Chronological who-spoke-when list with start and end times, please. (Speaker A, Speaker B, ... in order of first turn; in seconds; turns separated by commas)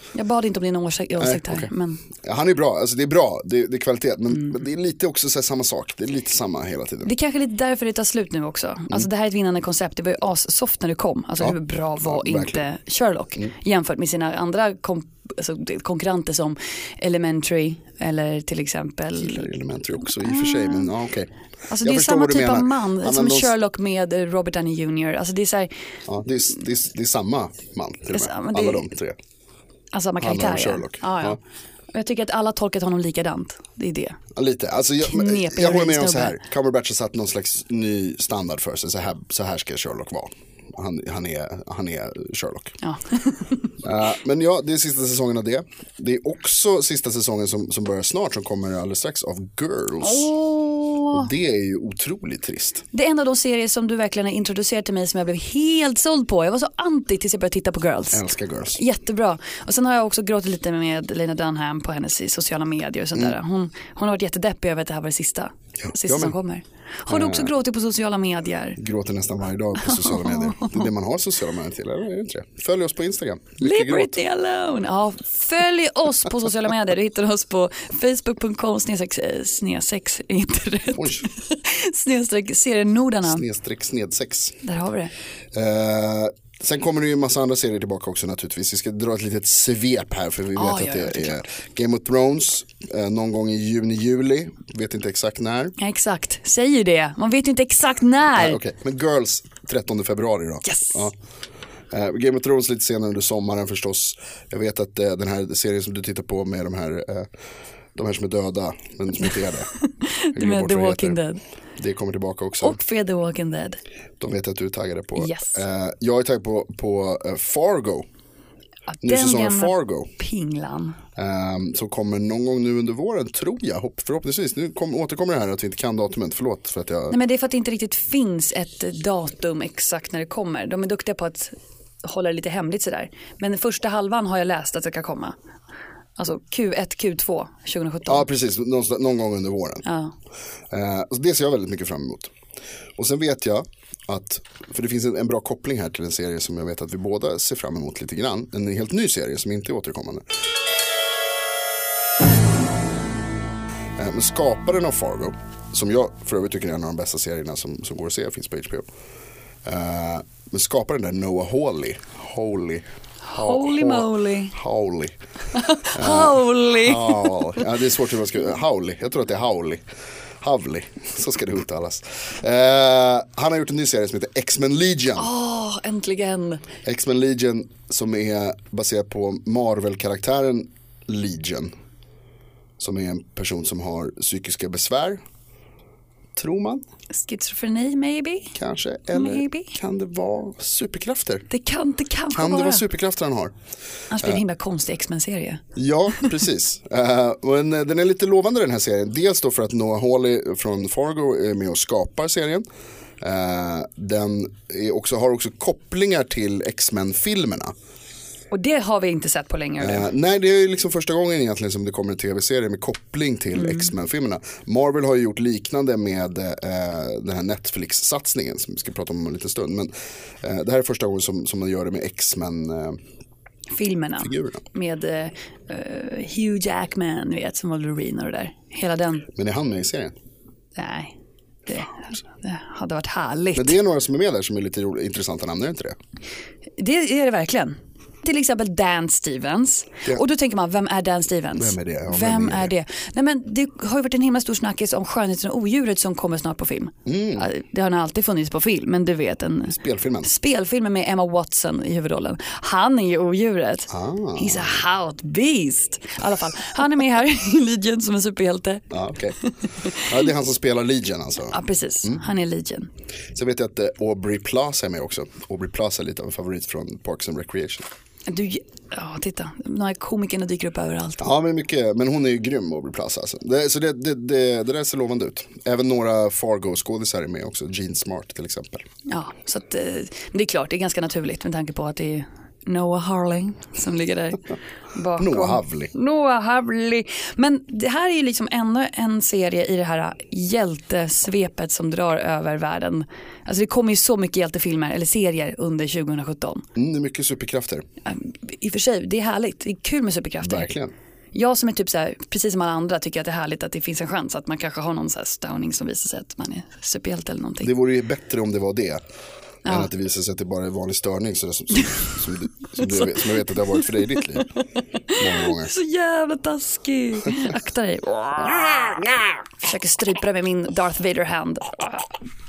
Speaker A: 0.1-2.0, Speaker B: 1.2-7.1, Speaker A: 7.0-19.5, Speaker B: 11.4-12.6, Speaker B: 19.2-21.3, Speaker A: 20.2-20.9, Speaker A: 21.7-25.7, Speaker B: 21.8-23.5, Speaker B: 26.1-29.2, Speaker A: 28.1-28.9, Speaker A: 29.9-31.4, Speaker B: 30.2-31.4, Speaker A: 31.9-34.2, Speaker B: 34.3-42.7, Speaker A: 35.0-36.4, Speaker A: 42.8-43.7, Speaker B: 43.8-50.3, Speaker A: 50.0-51.3, Speaker B: 51.1-52.8, Speaker A: 52.9-58.2, Speaker B: 58.1-58.8, Speaker A: 58.7-68.8, Speaker B: 65.8-66.3, Speaker B: 67.1-67.5, Speaker B: 68.8-74.2, Speaker A: 69.8-70.8, Speaker A: 73.6-83.4, Speaker B: 80.9-81.2, Speaker B: 83.2-84.6, Speaker A: 84.6-85.1, Speaker B: 85.5-95.7, Speaker A: 90.5-91.4, Speaker A: 95.8-98.6, Speaker B: 98.3-101.1, Speaker A: 100.7-101.1, Speaker B: 101.9-107.3, Speaker B: 107.9-109.7, Speaker A: 109.8-111.4, Speaker B: 110.3-111.2, Speaker B: 111.8-112.8, Speaker A: 112.6-113.8, Speaker B: 114.2-118.0, Speaker A: 115.2-115.6, Speaker A: 118.9-121.0, Speaker B: 119.0-120.1, Speaker B: 121.2-127.2, Speaker A: 127.1-135.3, Speaker A: 136.2-138.3, Speaker B: 138.1-139.8, Speaker A: 139.8-140.1, Speaker B: 140.7-142.3, Speaker B: 143.0-150.3, Speaker B: 154.0-158.9, Speaker B: 159.6-165.1, Speaker A: 163.2-164.6, Speaker A: 165.5-167.6, Speaker B: 165.9-169.8, Speaker B: 170.4-175.3, Speaker A: 175.2-176.6, Speaker B: 176.8-181.7, Speaker B: 182.8-185.2, Speaker B: 186.3-186.8, Speaker A: 187.1-188.5, Speaker B: 188.5-191.4, Speaker A: 189.1-189.7, Speaker A: 191.5-192.8, Speaker B: 192.3-193.5, Speaker A: 194.1-195.6, Speaker B: 195.8-202.6, Speaker B: 203.2-207.7, Speaker A: 208.5-210.1, Speaker B: 209.8-223.0, Speaker A: 213.6-213.9, Speaker A: 223.7-229.3, Speaker B: 224.2-224.6, Speaker B: 229.3-230.1, Speaker A: 230.8-231.2, Speaker A: 231.7-233.8, Speaker B: 233.6-236.0, Speaker A: 236.8-258.9, Speaker B: 241.6-242.7, Speaker B: 247.1-247.5, Speaker B: 249.7-250.3, Speaker B: 253.9-254.8, Speaker B: 258.9-259.4, Speaker A: 259.8-260.1, Speaker B: 259.9-262.2, Speaker A: 261.5-262.9, Speaker B: 263.3-267.9, Speaker A: 268.3-271.3, Speaker B: 271.2-278.9, Speaker A: 279.1-296.6, Speaker B: 285.2-285.9, Speaker B: 296.8-297.9, Speaker A: 298.1-300.7, Speaker B: 300.4-300.9, Speaker A: 301.3-307.7, Speaker B: 307.6-309.0, Speaker B: 309.6-314.5, Speaker A: 312.8-313.2, Speaker A: 315.1-319.0, Speaker B: 315.1-315.7, Speaker A: 319.6-322.1